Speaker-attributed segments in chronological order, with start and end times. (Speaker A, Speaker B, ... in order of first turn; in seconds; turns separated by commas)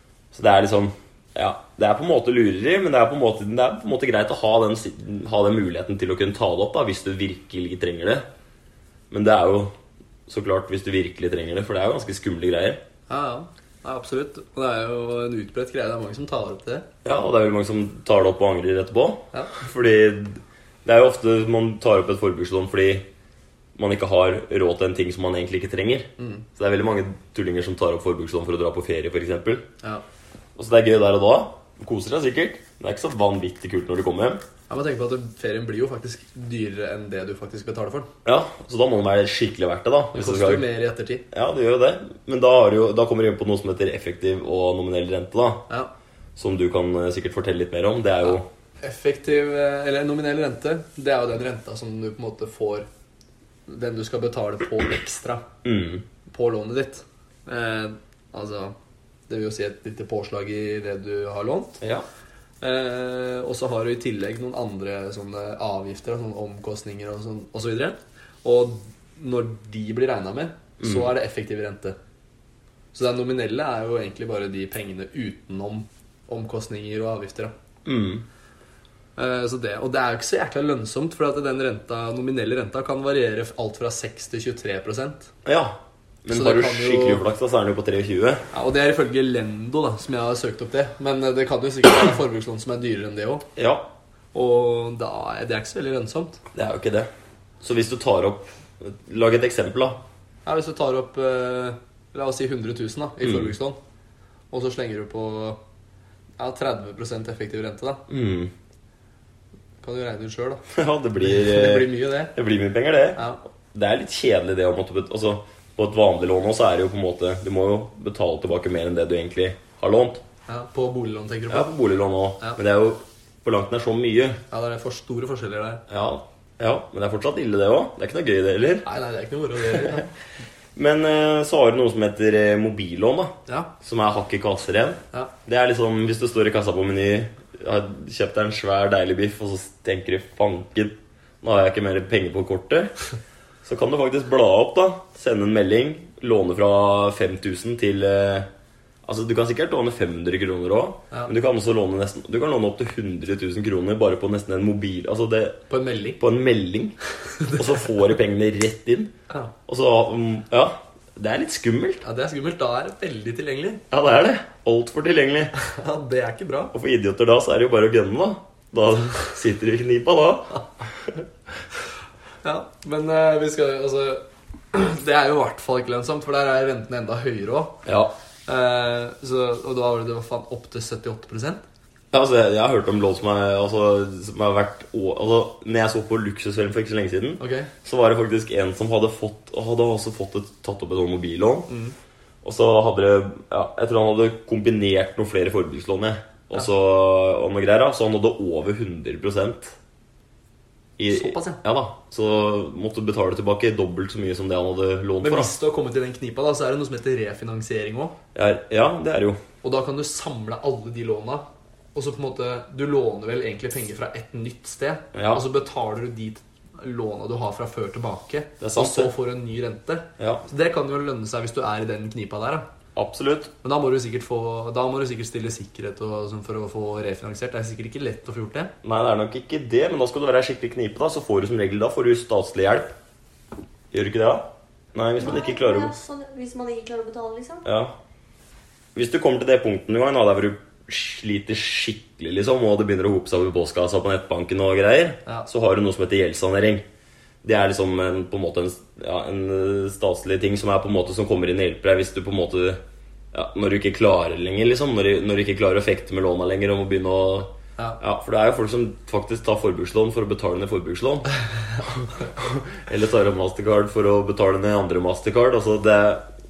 Speaker A: 0.3-8.2, Speaker A: 9.1-9.7, Speaker A: 10.3-12.8, Speaker B: 13.1-16.9, Speaker A: 17.0-23.1, Speaker A: 23.8-29.7, Speaker B: 26.2-26.4, Speaker A: 30.6-34.4, Speaker B: 34.7-38.1, Speaker A: 38.2-40.6, Speaker B: 40.1-41.2, Speaker A: 41.3-45.6, Speaker A: 46.4-48.5, Speaker B: 48.2-52.9, Speaker B: 53.7-55.4, Speaker A: 55.6-56.0, Speaker B: 56.3-58.7, Speaker B: 59.3-61.8, Speaker B: 62.6-72.0, Speaker A: 70.8-71.1, Speaker B: 72.9-77.5, Speaker A: 77.9-78.3, Speaker B: 79.2-85.3, Speaker A: 85.5-88.5, Speaker B: 86.3-87.2, Speaker B: 88.5-93.4, Speaker A: 93.6-93.9, Speaker B: 94.3-96.4, Speaker A: 96.5-97.1, Speaker A: 97.6-100.0, Speaker B: 100.5-103.8, Speaker A: 103.2-103.5, Speaker B: 104.5-105.6, Speaker B: 106.4-108.0, Speaker A: 108.1-108.5, Speaker B: 109.8-110.6, Speaker A: 110.7-113.2, Speaker B: 111.2-112.3, Speaker A: 113.7-120.2, Speaker B: 120.5-121.7, Speaker A: 121.5-124.4, Speaker B: 124.5-125.8, Speaker A: 125.9-128.9, Speaker B: 128.8-130.1, Speaker A: 130.8-142.9, Speaker A: 143.7-148.5, Speaker A: 149.1-155.6, Speaker B: 155.7-156.2, Speaker A: 156.2-157.0, Speaker B: 157.4-157.8, Speaker A: 157.5-159.1, Speaker A: 159.7-162.0, Speaker B: 162.0-163.8, Speaker A: 163.9-165.5, Speaker B: 165.6-166.7, Speaker A: 166.7-170.7, Speaker B: 172.4-177.8, Speaker A: 177.9-178.1, Speaker B: 178.5-181.6, Speaker A: 182.1-191.7, Speaker B: 187.4-187.7, Speaker B: 191.7-191.9, Speaker A: 192.4-199.8, Speaker A: 201.0-205.5, Speaker B: 201.1-201.6, Speaker B: 205.2-208.2, Speaker A: 208.3-209.4, Speaker B: 209.6-211.4, Speaker B: 211.9-222.7, Speaker A: 215.1-215.4, Speaker A: 218.6-219.1, Speaker A: 220.2-220.4, Speaker A: 223.0-223.5, Speaker B: 223.6-228.7, Speaker A: 228.8-232.9, Speaker A: 233.9-236.0, Speaker C: 235.4-237.6, Speaker A: 237.7-238.0, Speaker A: 238.9-246.8, Speaker A: 247.4-252.8, Speaker A: 253.3-261.3, Speaker A: 261.9-266.3